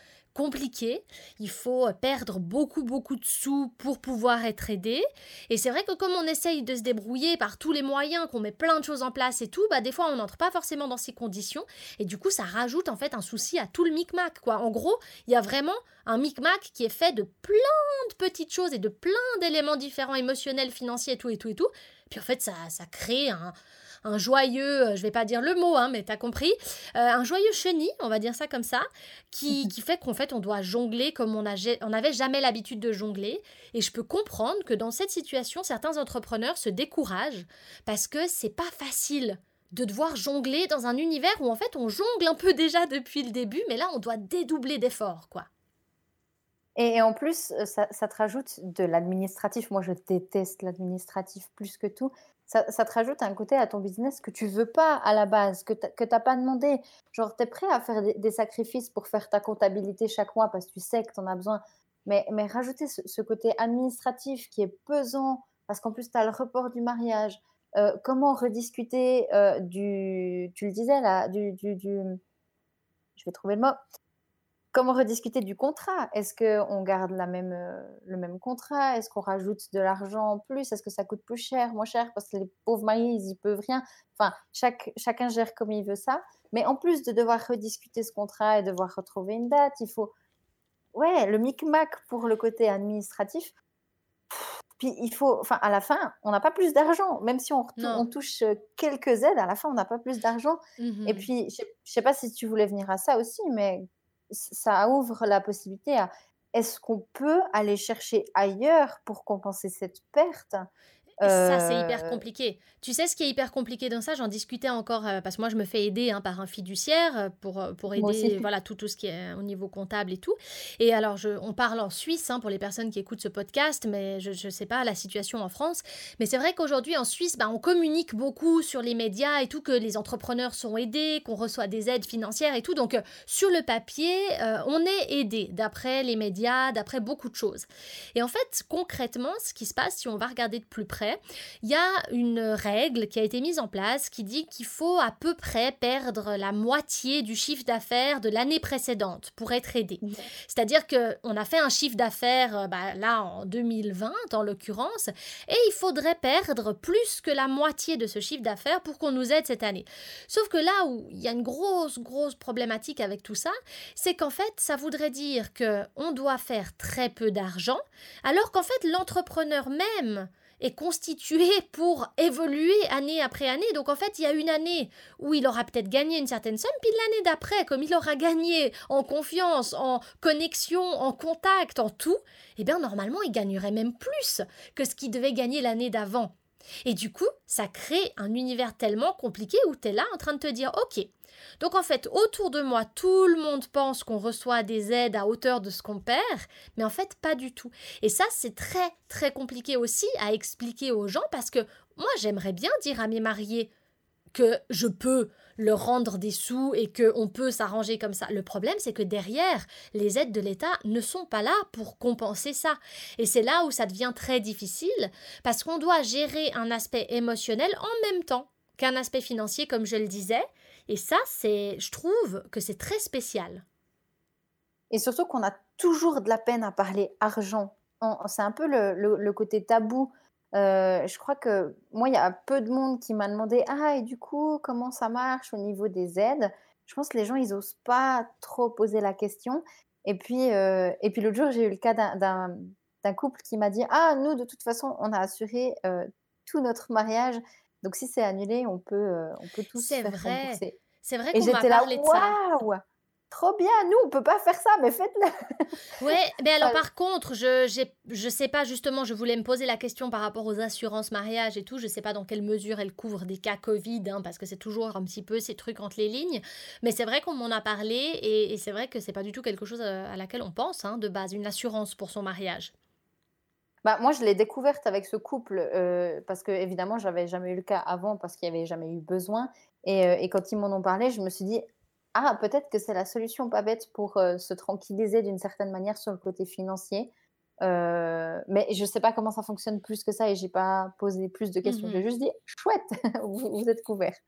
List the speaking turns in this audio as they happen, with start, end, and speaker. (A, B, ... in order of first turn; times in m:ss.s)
0:00.3-0:45.5 A
0:46.8-1:12.2 B
1:13.2-1:13.8 B
1:14.7-1:30.1 B
1:30.9-1:33.5 B
1:34.3-1:50.6 B
1:37.8-1:38.1 A
1:40.8-1:41.3 A
1:51.2-1:52.2 B
1:51.2-3:06.3 A
1:57.9-1:58.4 B
3:06.8-3:23.7 A
3:24.3-3:43.6 A
3:44.9-4:10.8 B
4:09.8-4:12.4 A
4:11.3-4:15.7 B
4:16.0-4:32.7 A
4:33.8-4:41.6 B
4:42.1-4:47.1 B
4:47.6-4:54.2 B
4:51.6-4:52.0 A